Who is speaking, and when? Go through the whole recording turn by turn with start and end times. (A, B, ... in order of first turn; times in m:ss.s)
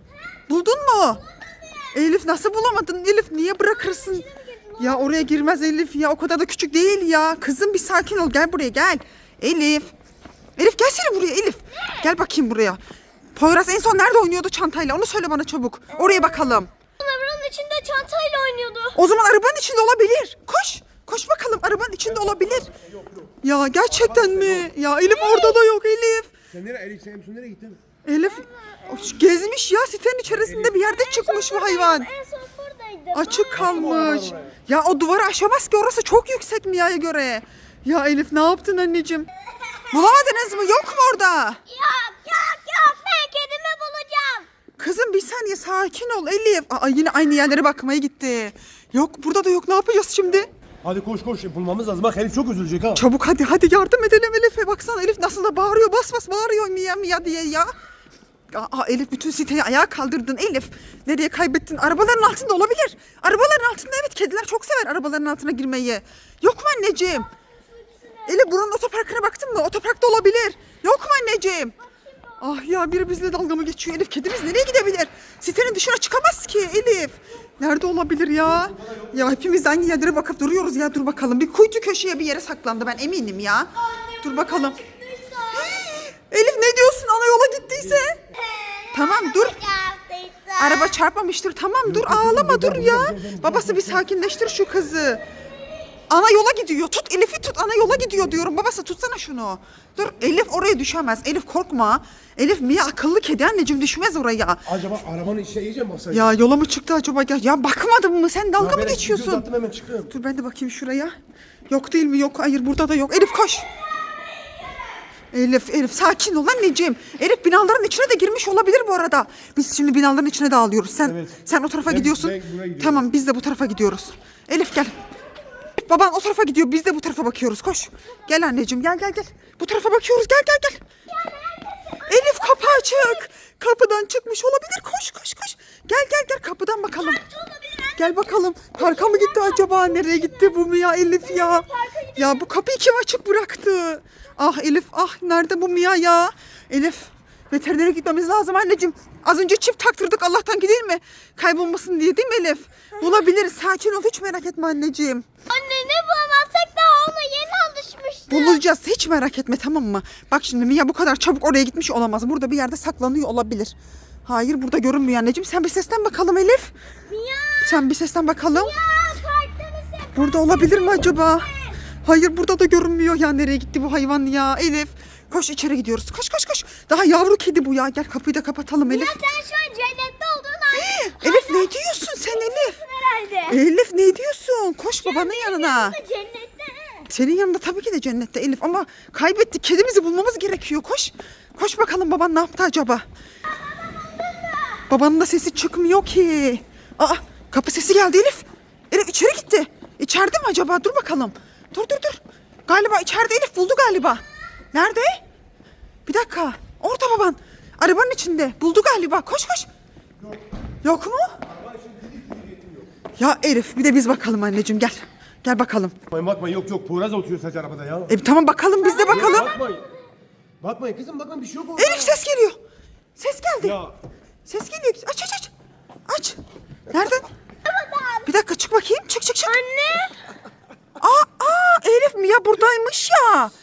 0:00.5-0:01.2 A
0:01.3-0:02.0 B
0:01.9-0:04.2 A
0:03.6-0:05.7 B
0:04.8-0:09.9 A
0:10.6-0:12.8 A
0:13.4-0:16.7 A
0:15.9-0:19.0 B
0:18.9-0:22.7 A
0:22.0-0:23.3 C
0:23.4-0:26.3 A
0:23.8-0:24.7 C
0:25.0-0:25.6 B
0:26.5-0:27.8 C
0:28.0-0:32.1 A
0:28.2-0:29.3 B
0:30.2-0:30.8 C
0:30.7-0:34.4 B
0:33.1-0:39.3 A
0:33.5-0:34.6 C
0:39.6-0:40.8 B
0:39.9-0:41.6 A
0:41.7-0:44.5 B
0:44.8-0:50.5 A
0:50.8-0:53.0 C
0:52.9-0:57.7 A
0:58.5-1:07.3 A
1:07.7-1:08.5 B
1:08.2-1:11.8 A
1:11.8-1:12.4 B
1:12.4-1:24.8 A
1:18.7-1:19.1 C
1:23.8-1:25.9 B
1:25.5-1:28.2 A
1:28.3-1:31.0 B
1:28.9-1:29.6 A
1:30.6-1:35.2 A
1:31.8-1:34.0 C
1:36.1-1:44.6 A
1:44.6-1:46.4 C
1:46.1-1:49.4 A
1:48.6-1:50.1 C
1:50.1-1:51.1 A
1:51.7-1:53.7 A
1:55.3-2:05.0 A
2:01.0-2:03.0 C
2:05.7-2:10.8 A
2:11.1-2:13.2 B
2:12.1-2:17.2 A
2:16.9-2:22.5 B
2:18.0-2:35.2 A
2:35.5-2:38.6 B
2:38.3-2:43.7 A
2:44.3-2:46.7 A
2:47.1-2:47.8 B
2:47.6-2:48.7 A
2:48.5-2:51.8 B
2:50.1-2:51.5 A
2:52.0-2:59.2 A
2:58.8-3:03.6 B
3:00.7-3:02.8 A
3:03.5-3:06.0 A
3:05.0-3:07.1 B
3:07.1-3:13.0 A
3:13.5-3:14.8 B
3:14.9-3:25.2 A
3:26.0-3:29.7 A
3:30.8-3:31.3 A
3:31.4-3:32.9 C
3:33.2-3:36.0 A
3:36.1-3:38.1 C
3:38.1-3:39.5 A
3:38.8-3:39.8 B
3:39.1-3:39.9 C
3:40.6-3:42.1 C
3:41.8-3:42.6 A
3:43.2-3:43.8 A
3:43.6-3:44.0 C
3:44.4-3:45.5 A
3:46.1-3:46.4 A
3:46.9-3:47.2 A
3:47.6-3:48.3 B
3:48.2-3:49.6 A
3:49.4-3:50.2 B
3:51.0-3:53.5 A